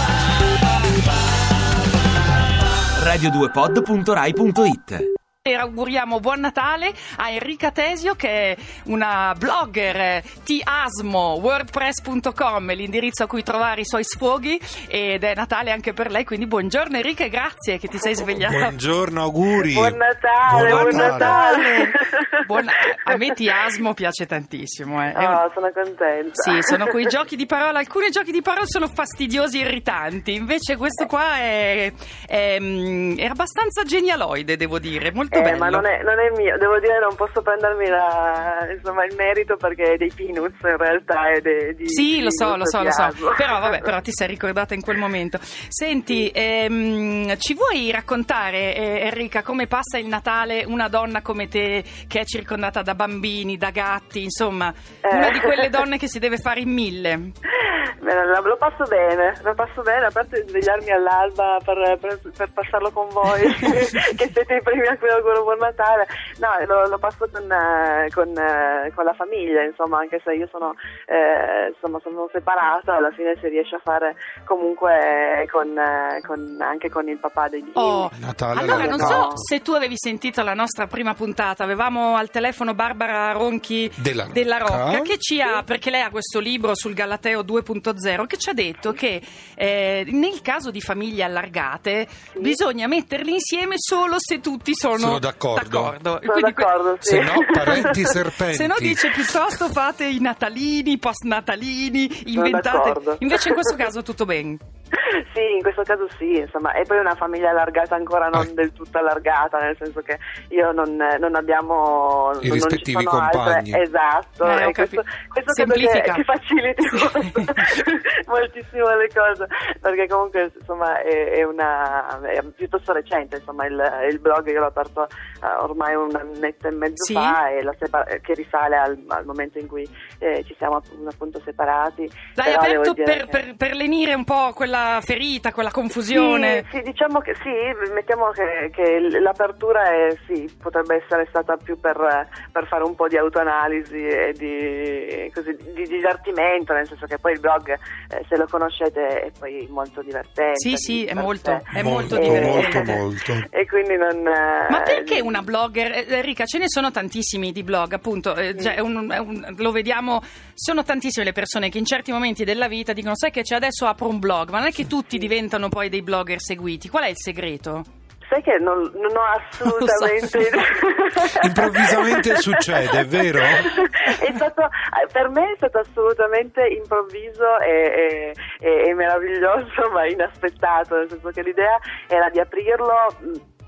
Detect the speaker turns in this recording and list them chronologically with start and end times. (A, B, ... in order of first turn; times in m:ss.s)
0:03.0-0:05.1 A
0:05.4-0:18.7 B
0:18.4-0:21.4 C
0:19.6-0:22.4 D
0:20.5-0:25.4 B
0:25.1-0:26.8 D
0:26.4-0:35.9 B
0:35.3-0:43.8 D
0:41.9-0:57.3 B
0:55.0-0:55.7 D
0:57.7-1:19.5 D
1:17.8-1:36.7 B
1:18.1-1:19.4 C
1:24.0-1:25.1 C
1:34.9-1:35.9 C
1:36.2-1:38.1 D
1:37.0-1:39.2 C
1:38.5-1:44.6 B
1:42.3-1:43.6 D
1:45.0-2:13.4 D
1:52.4-1:53.8 C
1:54.4-1:56.2 B
1:57.1-1:57.7 B
2:07.0-2:07.4 B
2:12.4-2:16.6 B
2:16.1-2:35.4 D
2:30.6-2:33.0 B
2:31.7-2:33.5 C
2:34.7-2:47.9 B
2:48.3-2:52.6 D
2:49.6-2:50.6 B
2:51.4-2:53.8 C
2:53.6-3:03.4 D